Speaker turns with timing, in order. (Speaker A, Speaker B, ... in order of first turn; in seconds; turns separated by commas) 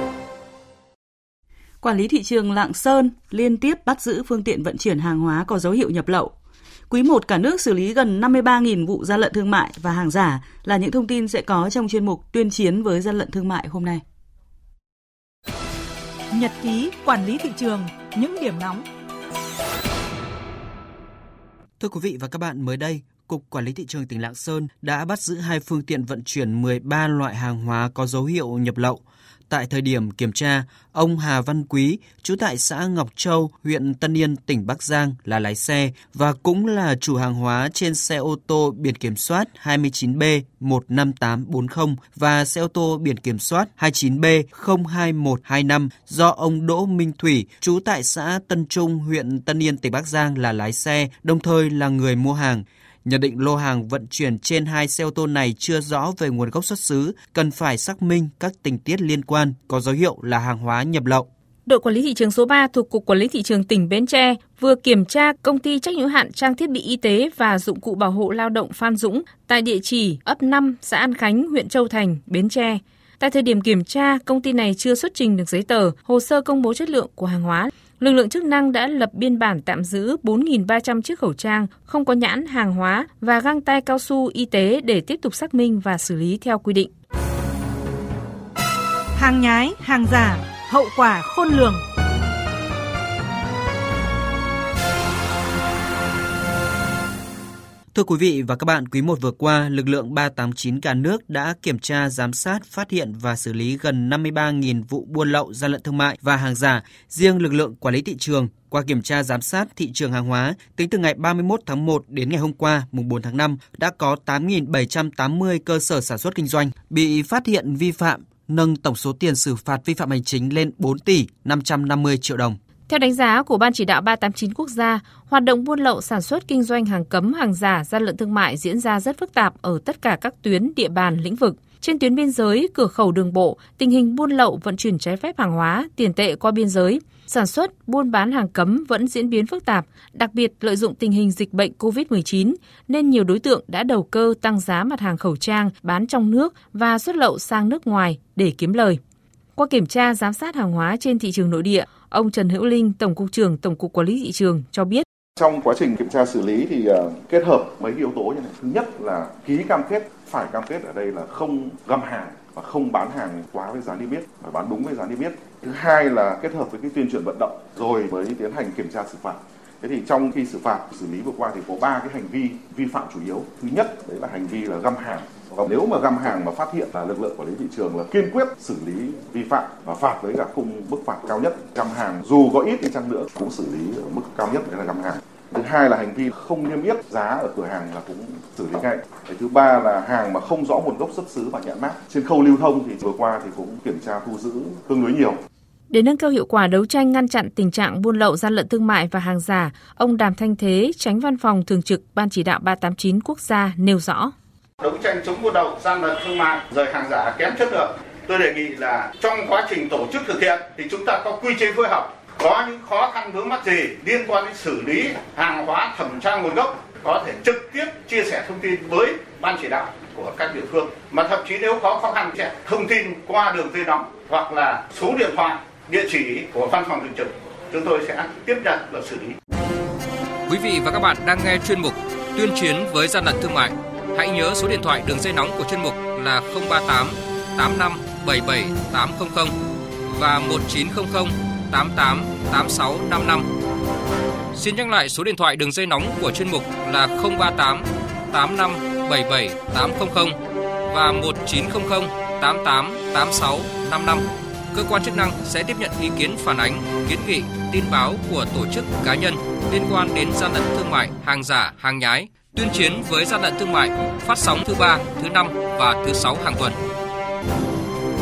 Speaker A: 1.8-6.3, Speaker A: 6.9-14.0, Speaker B: 16.3-18.9, Speaker C: 21.8-61.3, Speaker D: 61.7-86.9, Speaker B: 89.2-91.8, Speaker C: 97.9-122.6, Speaker D: 122.9-149.0, Speaker D: 149.6-155.1, Speaker E: 155.4-195.4, Speaker D: 195.9-204.3, Speaker F: 204.8-229.3, Speaker G: 230.5-239.5, Speaker G: 240.1-243.5, Speaker G: 244.5-250.4, Speaker G: 250.9-266.8